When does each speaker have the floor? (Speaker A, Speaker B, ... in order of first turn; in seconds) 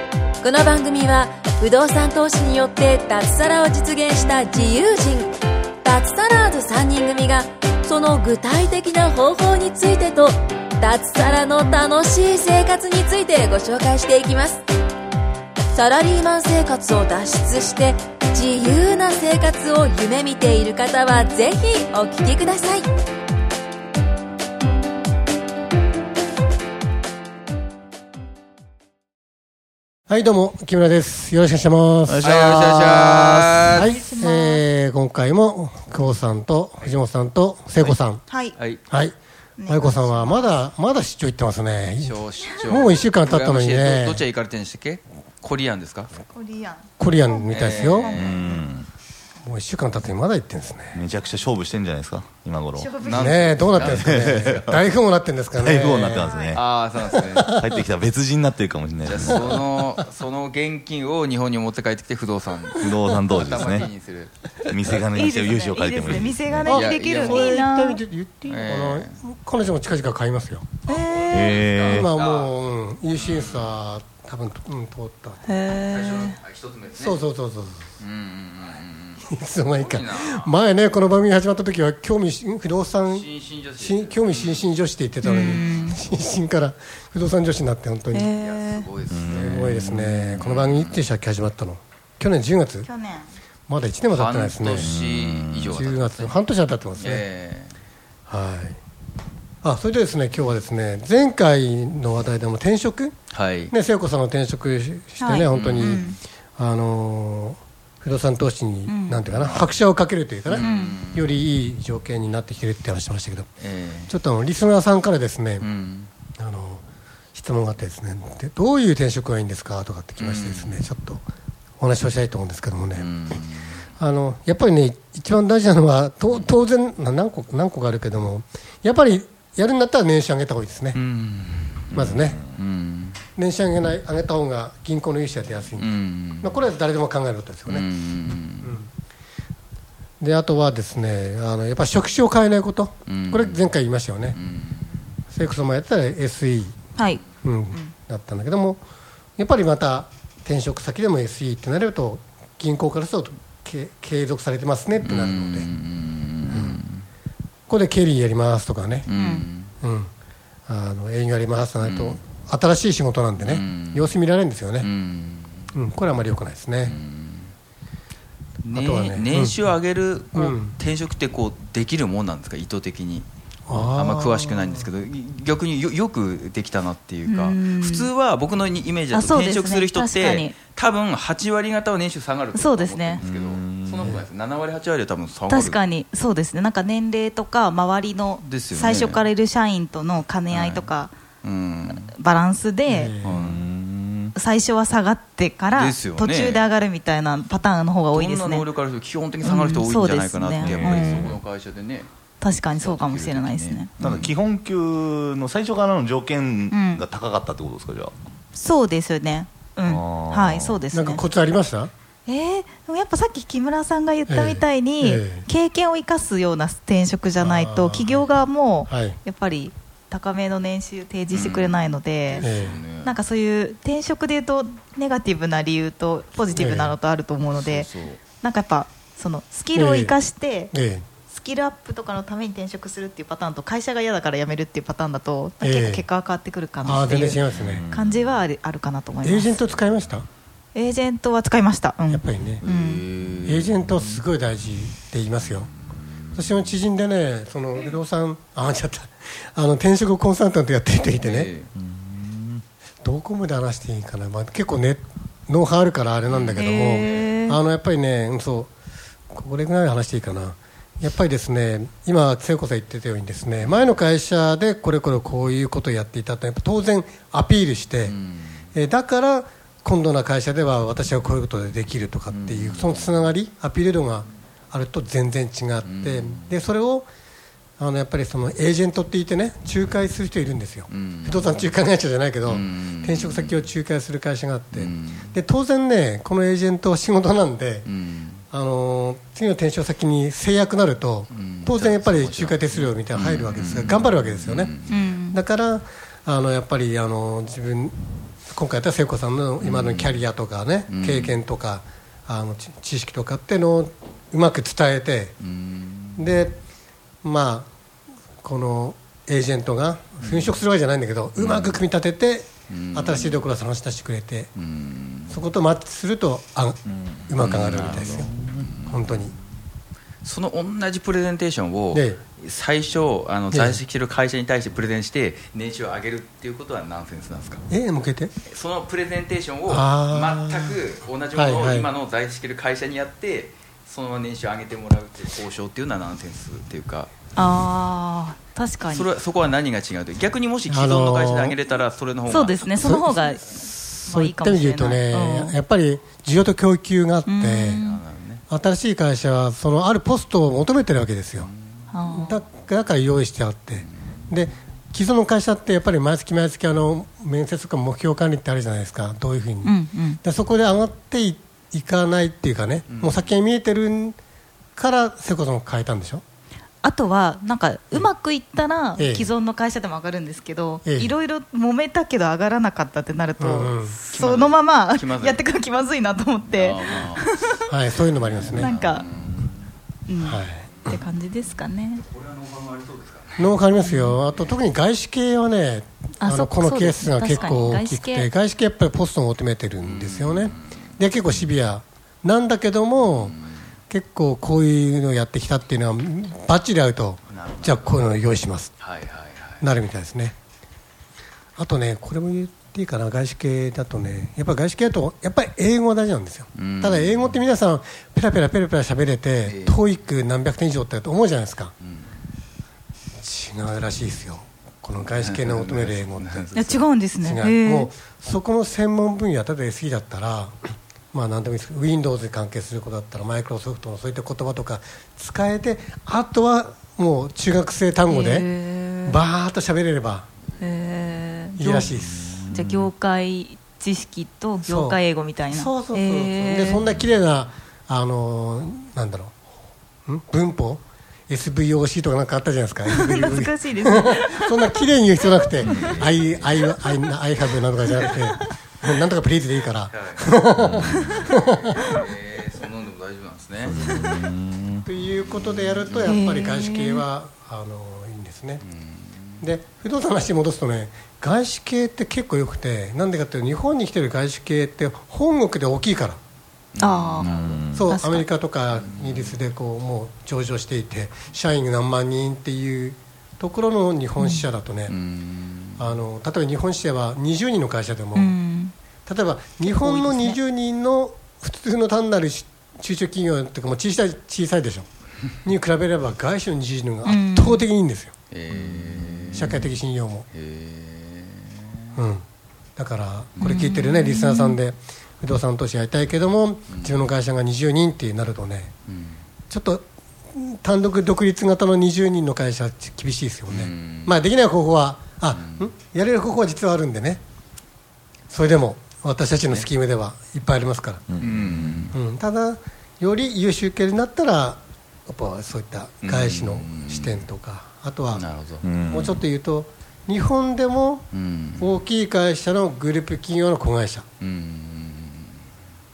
Speaker A: 0.4-5.3, 5.8-14.6, 15.7-22.9
Speaker B: 30.1-32.3, 33.7-38.2, 38.9-39.1, 39.6-44.2, 47.0-48.2, 49.4-51.0, 53.1-56.3, 57.0-57.8, 59.2-59.6, 66.6-70.7, 71.9-75.6, 77.0-77.8, 79.2-88.3, 89.3-92.9, 93.7-94.9, 95.7-97.2, 98.3-98.8, 99.6-103.1, 103.7-113.5, 114.1-115.7, 116.4-116.8, 117.3-121.2, 121.8-123.1, 124.0-131.0, 131.9-132.4, 133.3-137.9, 138.6-138.9, 140.2-144.4, 145.3-146.7, 147.4-148.8, 149.4-155.7, 156.5-156.8, 157.7-159.1, 159.8-160.1, 160.7-164.9, 165.7-167.0, 168.7-169.6, 170.3-170.7, 173.7-174.9, 192.9-193.4, 210.9-211.9, 214.3-215.4, 217.4-218.3, 218.8-219.2, 222.4-222.8, 226.5-226.9, 229.7-230.2, 230.7-231.1, 235.6-236.0, 236.8-237.8, 239.2-240.3, 242.1-242.6, 243.4-245.7, 246.3-251.5, 253.0-258.7, 259.3-268.1, 268.7-277.1, 277.8-287.9, 288.5-294.7, 295.3-297.9, 298.5-305.3, 306.2-306.6, 307.2-307.7, 308.4-314.5, 315.3-318.3, 318.9-319.3, 321.9-322.2, 323.5-323.8, 327.7-328.3, 329.7-330.8, 331.3-331.9, 340.7-341.6, 342.8-347.8, 348.5-351.5, 352.1-364.2, 364.8-366.2, 369.0-369.3, 370.8-371.1, 373.4-374.0, 377.7-378.7, 380.2-380.6, 383.4-393.3, 393.9-398.8, 399.6-400.3, 401.6-411.7, 413.2-416.5, 417.2-428.5, 429.0-430.3, 431.6-432.4, 434.6-439.3, 440.1-451.9, 454.8-458.6, 459.4-466.2, 467.7-474.9, 475.8-478.4, 479.1-484.9, 485.4-490.3, 491.9-492.2, 492.8-498.7, 499.5-507.2, 508.3-511.0, 511.9-518.2, 518.9-524.0
Speaker C: 32.1-33.8, 48.1-48.9, 50.9-53.0, 53.6-54.9, 55.5-56.6, 57.5-59.6, 62.8-63.9, 64.7-66.8, 71.3-72.1, 89.1-90.5, 94.7-95.8, 131.9-132.6, 183.2-184.2, 193.3-194.3, 200.6-201.2, 204.0-208.1, 209.8-210.8, 237.5-238.4, 251.8-252.6, 311.4-311.7, 316.9-318.7, 432.0-432.9, 445.7-446.1, 450.6-451.2, 453.7-455.8, 467.2-467.9, 511.1-511.8, 518.6-519.2
Speaker D: 32.2-33.9, 38.5-38.8, 42.0-46.1, 47.5-48.5, 53.0-54.6, 56.5-57.5, 59.0-65.0, 66.7-67.5, 68.5-69.2, 70.9-72.5, 73.1-73.8, 75.8-77.2, 78.0-80.5, 83.0-84.7, 85.2-86.0, 88.3-91.0, 94.1-96.4, 97.0-97.8, 103.3-103.7, 105.5-106.0, 109.2-109.7, 110.5-111.3, 113.6-114.1, 115.6-116.1, 120.2-120.8, 123.0-123.8, 130.9-131.9, 132.5-133.2, 135.8-136.7, 137.7-138.8, 143.1-143.7, 144.3-145.1, 155.0-157.0, 159.1-159.7, 161.8-162.2, 163.4-164.2, 164.8-165.7, 166.8-167.5, 168.6-185.8, 188.4-189.2, 190.5-190.9, 191.4-192.1, 193.2-193.7, 195.7-196.6, 198.1-202.1, 202.8-204.3, 221.3-223.1, 227.5-228.2, 242.6-244.2, 245.4-245.7, 251.2-251.7, 256.3-256.6, 268.0-268.6, 272.3-273.3, 275.8-276.5, 280.9-281.6, 282.4-283.7, 284.7-285.3, 287.9-288.4, 291.3-294.9, 299.6-300.2, 300.9-301.4, 305.4-306.3, 310.2-310.6, 311.5-311.8, 312.7-313.4, 314.6-315.4, 317.4-319.2, 320.2-327.6, 328.4-337.1, 338.9-342.9, 347.8-348.4, 362.9-363.3, 374.1-375.4, 376.5-377.2, 378.2-379.6, 382.1-383.6, 387.3-387.8, 389.8-390.8, 393.0-393.6, 397.3-398.0, 398.8-399.6, 406.5-407.4, 409.4-409.8, 411.8-412.1, 415.0-416.8, 445.6-446.4, 449.9-450.3, 451.8-453.9, 455.9-456.2, 458.6-459.5, 466.7-467.6, 468.7-469.4, 474.9-475.9, 488.3-489.7, 490.3-491.9, 496.7-497.1, 498.9-499.2, 503.5-504.2, 505.3-505.7, 511.2-511.9, 516.0-517.3, 518.1-518.7, 521.1-521.8, 524.2-525.4
Speaker E: 33.8-34.6, 38.3-38.5, 39.6-40.7, 46.3-48.6, 52.8-53.4, 56.0-56.6, 65.0-68.0, 70.9-71.6, 75.5-76.4, 85.2-86.0, 88.1-88.9, 92.8-93.3, 105.2-106.2, 108.8-109.2, 110.5-111.0, 146.9-147.2, 159.1-159.4, 177.2-178.1, 179.1-180.5, 182.5-183.2, 185.5-191.1, 192.0-193.1, 194.3-198.7, 199.4-201.4, 202.4-203.9, 206.7-207.0, 208.5-211.2, 212.2-222.5, 223.0-230.7, 231.3-239.6, 240.7-243.0, 256.6-257.6, 294.9-295.4, 337.3-339.1, 342.3-345.5, 347.2-348.0, 351.9-352.4, 359.6-360.2, 366.8-377.6, 378.5-379.0, 380.1-382.0, 383.8-384.2, 386.2-388.3, 416.5-417.9, 428.1-429.2, 430.6-431.9, 432.4-436.8, 442.9-445.8, 446.8-447.1, 447.9-448.5, 456.0-457.0, 466.8-468.3, 474.2-474.5, 478.1-478.7, 479.6-480.4, 487.0-487.6, 493.4-494.6